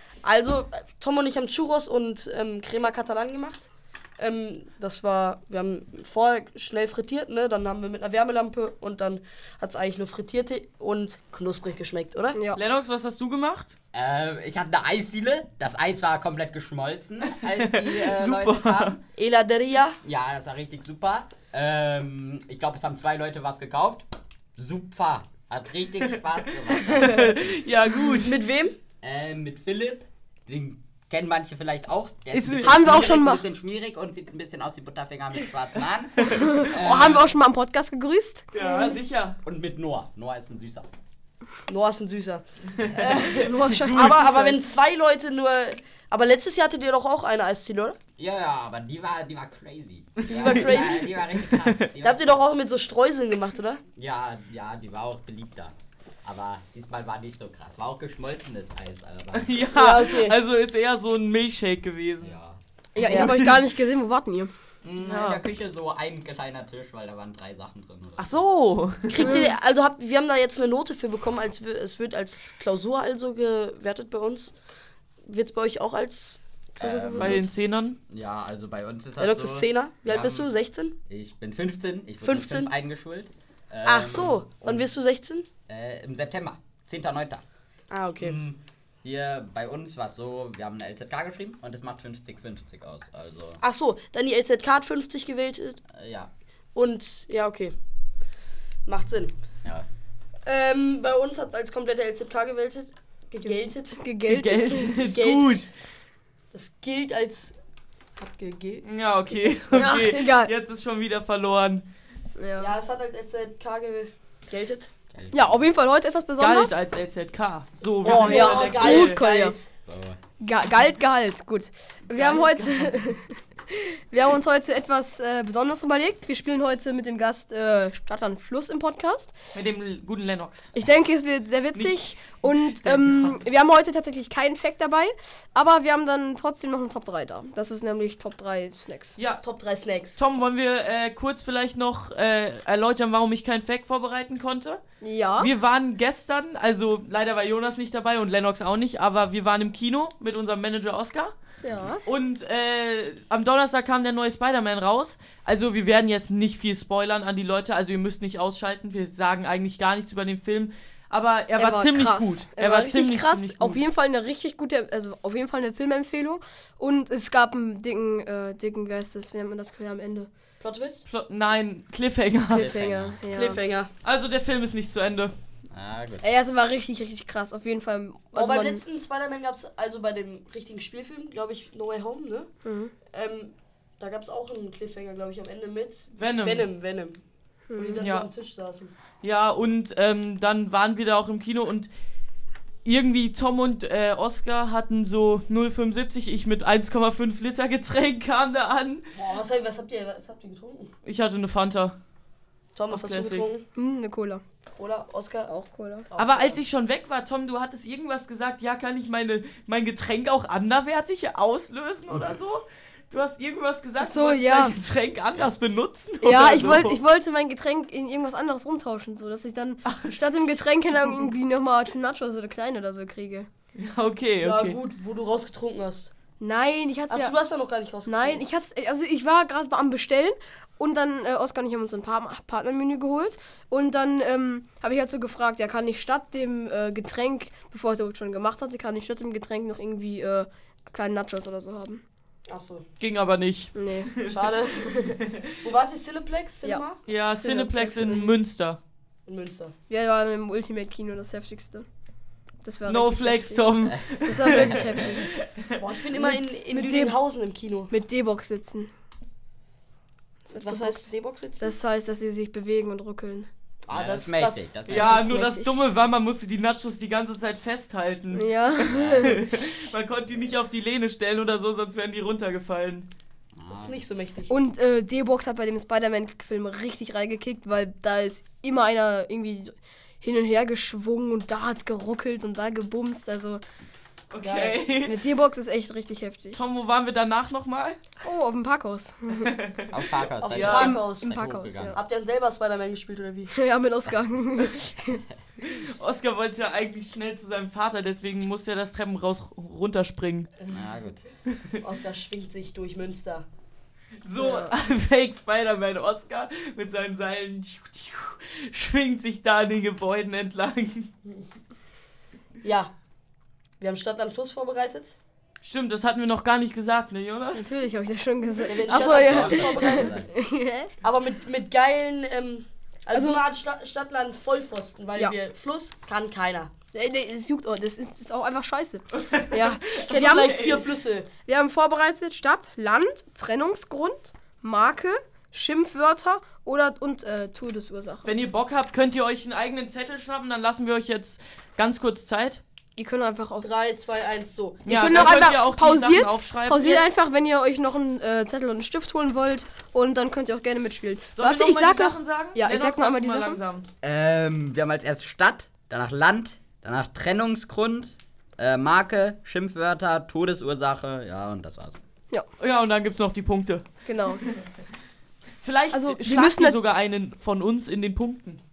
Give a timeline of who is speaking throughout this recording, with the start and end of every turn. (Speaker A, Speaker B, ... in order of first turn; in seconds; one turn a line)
Speaker A: 0.2-12.4
Speaker B: 12.3-12.6
Speaker C: 12.5-13.8
Speaker D: 13.9-19.0
Speaker C: 17.4-19.0
Speaker A: 19.2-20.0
Speaker D: 20.0-27.6
Speaker C: 26.7-28.4
Speaker A: 26.9-27.2
Speaker A: 28.2-28.8
Speaker D: 29.0-37.3
Speaker C: 32.3-33.2
Speaker B: 32.6-33.4
Speaker B: 36.3-39.0
Speaker C: 38.5-39.4
Speaker D: 39.5-40.9
Speaker A: 41.7-48.0
Speaker C: 42.8-44.3
Speaker B: 43.3-44.6
Speaker D: 48.2-52.3
Speaker C: 50.2-51.9
Speaker A: 50.3-51.1
Speaker A: 52.0-53.8
Speaker D: 54.0-59.6
Speaker C: 59.3-62.4
Speaker A: 59.7-60.4
Speaker D: 62.2-62.6
Speaker B: 63.0-64.5
Speaker C: 63.0-63.6
Speaker A: 63.0-63.3
Speaker D: 64.8-68.4
Speaker C: 65.0-65.4
Speaker C: 68.2-69.4
Speaker A: 69.1-74.5
Speaker B: 69.2-69.5
Speaker A: 75.2-77.5
Speaker D: 76.8-77.5
Speaker C: 77.2-78.0
Speaker D: 78.1-80.5
Speaker A: 79.2-81.0
Speaker D: 81.1-84.9
Speaker A: 82.2-82.7
Speaker A: 83.8-85.5
Speaker D: 85.7-87.4
Speaker A: 87.9-88.4
Speaker D: 88.2-93.6
Speaker A: 93.6-95.8
Speaker D: 95.9-96.3
Speaker A: 96.8-97.7
Speaker A: 98.9-99.3
Speaker A: 100.5-104.0
Speaker B: 103.9-105.0
Speaker C: 104.2-105.7
Speaker A: 105.0-105.7
Speaker A: 106.5-107.6
Speaker A: 108.2-108.8
Speaker C: 108.8-111.9
Speaker B: 109.7-110.5
Speaker B: 112.4-112.8
Speaker A: 112.6-114.9
Speaker D: 115.1-115.7
Speaker B: 115.3-116.8
Speaker C: 116.4-119.2
Speaker A: 117.8-119.7
Speaker B: 118.0-119.5
Speaker D: 119.9-120.2
Speaker B: 120.4-129.3
Speaker C: 122.1-123.0
Speaker C: 129.5-130.7
Speaker B: 130.8-139.2
Speaker C: 131.7-133.4
Speaker C: 139.2-139.4
Speaker A: 139.4-140.2
Speaker C: 140.2-144.8
Speaker B: 145.0-145.5
Speaker C: 145.4-151.3
Speaker B: 151.6-152.0
Speaker C: 152.1-163.8
Speaker B: 161.6-170.3
Speaker A: 170.6-171.1
Speaker C: 171.1-172.7
Speaker D: 172.5-173.2
Speaker B: 172.5-173.6
Speaker A: 173.3-173.9
Speaker C: 174.0-175.3
Speaker D: 175.7-176.3
Speaker B: 176.2-178.8
Speaker A: 178.3-182.5
Speaker B: 182.6-182.9
Speaker A: 183.1-187.2
Speaker C: 186.2-186.7
Speaker B: 187.7-188.0
Speaker A: 187.8-188.9
Speaker C: 188.0-188.3
Speaker C: 189.2-191.9
Speaker C: 192.8-199.1
Speaker A: 199.1-200.9
Speaker C: 201.0-202.0
Speaker A: 202.8-203.7
Speaker C: 202.9-203.5
Speaker B: 203.8-204.4
Speaker A: 204.8-205.5
Speaker B: 205.5-206.1
Speaker A: 206.1-206.6
Speaker C: 206.2-217.0
Speaker B: 214.0-214.8
Speaker B: 216.2-223.5
Speaker C: 219.8-220.2
Speaker C: 223.8-224.8
Speaker A: 224.4-226.1
Speaker B: 226.4-227.3
Speaker A: 227.1-228.4
Speaker B: 228.1-242.0
Speaker A: 242.5-242.9
Speaker C: 243.0-244.4
Speaker B: 243.8-244.1
Speaker A: 244.2-247.0
Speaker C: 245.2-245.4
Speaker B: 246.6-248.3
Speaker C: 247.1-248.8
Speaker A: 249.3-249.7
Speaker B: 249.9-251.9
Speaker B: 252.6-255.3
Speaker C: 252.9-255.7
Speaker D: 254.4-254.9
Speaker A: 255.8-257.9
Speaker B: 256.1-257.2
Speaker B: 257.9-258.9
Speaker B: 260.5-261.1
Speaker A: 260.6-261.8
Speaker B: 261.6-263.5
Speaker A: 263.9-264.7
Speaker D: 263.9-265.3
Speaker B: 264.9-265.8
Speaker C: 264.9-273.1
Speaker B: 268.3-269.4
Speaker D: 268.9-269.5
Speaker D: 273.6-274.0
Speaker A: 273.7-274.6
Speaker B: 274.5-283.6
Speaker C: 284.3-285.3
Speaker A: 284.4-284.8
Speaker B: 285.0-286.6
Speaker C: 286.6-288.0
Speaker B: 288.2-289.5
Speaker C: 289.4-289.9
Speaker D: 289.9-292.0
Speaker A: 290.4-291.3
Speaker C: 290.6-290.9
Speaker B: 290.6-292.0
Speaker A: 291.9-293.5
Speaker B: 293.5-295.2
Speaker C: 295.6-300.5
Speaker D: 300.7-301.2
Speaker A: 301.8-303.5
Speaker C: 304.2-311.1
Speaker B: 304.4-304.7
Speaker A: 312.6-312.9
Speaker A: 313.8-315.2
Speaker C: 315.6-317.7
Speaker B: 317.6-320.9
Speaker A: 318.7-320.3
Speaker D: 318.9-320.3
Speaker A: 321.0-326.7
Speaker B: 323.1-323.4
Speaker B: 326.9-330.7
Speaker C: 329.1-330.9
Speaker A: 330.0-331.3
Speaker B: 331.4-338.3
Speaker C: 338.2-342.6
Speaker B: 343.0-343.7
Speaker A: 343.6-345.5
Speaker C: 344.9-347.1
Speaker B: 344.9-353.6
Speaker C: 351.4-353.9
Speaker D: 354.0-362.0
Speaker C: 362.6-364.6
Speaker B: 364.1-364.4
Speaker C: 365.6-368.6
Speaker B: 365.9-366.8